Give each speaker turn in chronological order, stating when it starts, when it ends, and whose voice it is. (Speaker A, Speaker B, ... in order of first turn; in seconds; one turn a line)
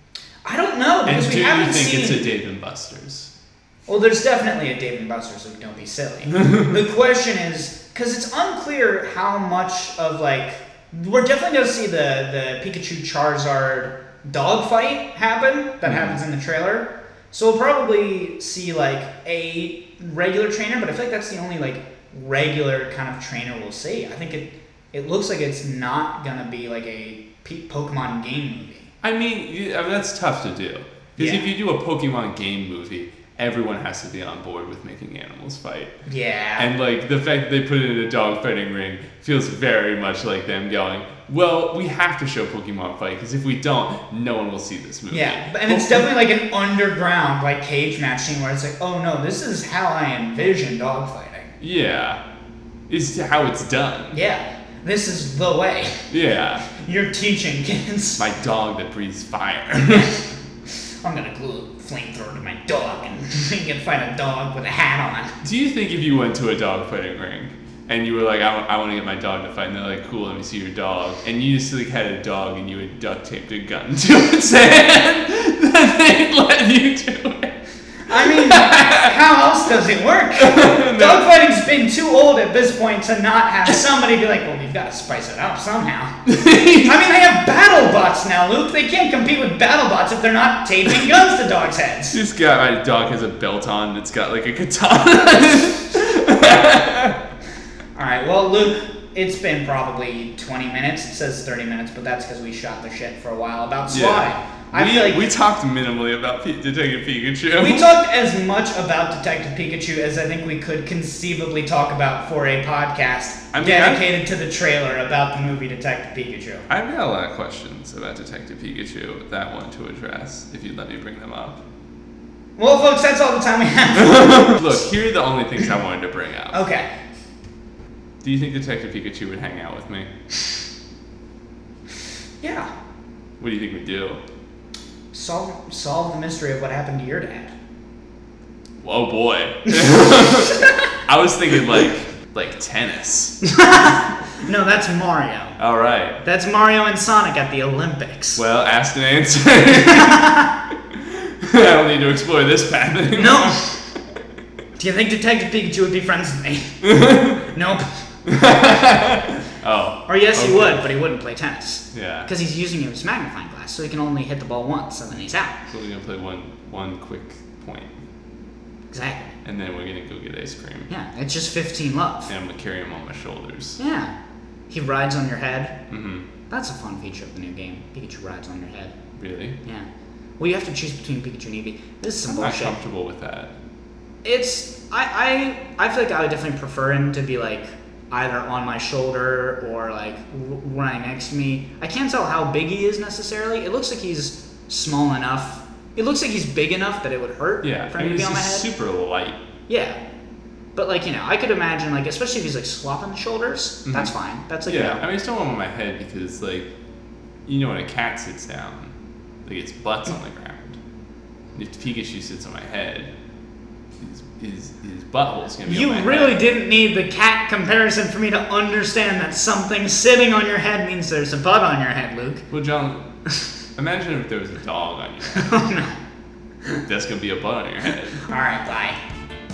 Speaker A: 0.4-2.3
Speaker B: 1.1-3.3
Speaker A: 3.9-28.9
Speaker B: 15.8-16.2
Speaker B: 29.0-35.9
Speaker A: 31.2-31.5
Speaker A: 36.0-36.7
Speaker B: 36.6-46.1
Speaker A: 45.1-51.5
Speaker B: 51.6-52.2
Speaker B: 52.9-54.2
Speaker A: 54.1-56.0
Speaker B: 56.1-56.7
Speaker A: 56.7-58.2
Speaker B: 58.2-60.1
Speaker A: 59.9-60.2
Speaker A: 61.0-65.3
Speaker B: 65.4-77.5
Speaker A: 78.1-86.1
Speaker B: 78.1-79.2
Speaker B: 80.4-81.3
Speaker B: 86.2-87.0
Speaker A: 86.8-92.2
Speaker B: 92.1-97.2
Speaker A: 97.9-105.3
Speaker B: 103.9-107.9
Speaker A: 107.5-116.7
Speaker B: 113.5-114.0
Speaker B: 116.7-121.6
Speaker A: 122.6-124.8
Speaker B: 123.9-126.6
Speaker A: 126.5-126.9
Speaker B: 128.2-130.1
Speaker A: 132.4-132.7
Speaker B: 133.4-134.2
Speaker A: 135.1-137.5
Speaker B: 138.8-143.4
Speaker A: 140.2-140.9
Speaker A: 143.4-145.6
Speaker B: 145.6-146.2
Speaker A: 146.2-148.4
Speaker B: 148.3-150.2
Speaker A: 149.7-150.5
Speaker B: 150.9-153.6
Speaker A: 153.1-153.8
Speaker A: 154.8-156.8
Speaker B: 156.8-157.5
Speaker A: 157.4-157.9
Speaker B: 158.2-160.8
Speaker A: 160.1-165.6
Speaker B: 161.9-162.3
Speaker B: 165.7-168.0
Speaker A: 168.9-169.3
Speaker B: 169.4-170.9
Speaker A: 170.9-172.3
Speaker B: 172.3-173.8
Speaker A: 173.8-174.1
Speaker A: 174.7-175.8
Speaker B: 175.9-176.2
Speaker A: 176.5-178.9
Speaker B: 179.2-179.6
Speaker A: 180.4-182.8
Speaker B: 182.3-183.5
Speaker A: 184.2-198.7
Speaker B: 197.6-199.4
Speaker A: 199.7-200.0
Speaker A: 200.8-205.0
Speaker B: 203.8-204.1
Speaker B: 204.7-206.7
Speaker B: 207.4-210.8
Speaker B: 211.5-213.1
Speaker B: 214.0-216.4
Speaker A: 215.7-222.4
Speaker B: 222.5-223.0
Speaker B: 223.8-225.5
Speaker A: 225.3-226.0
Speaker B: 226.8-228.2
Speaker A: 228.2-229.0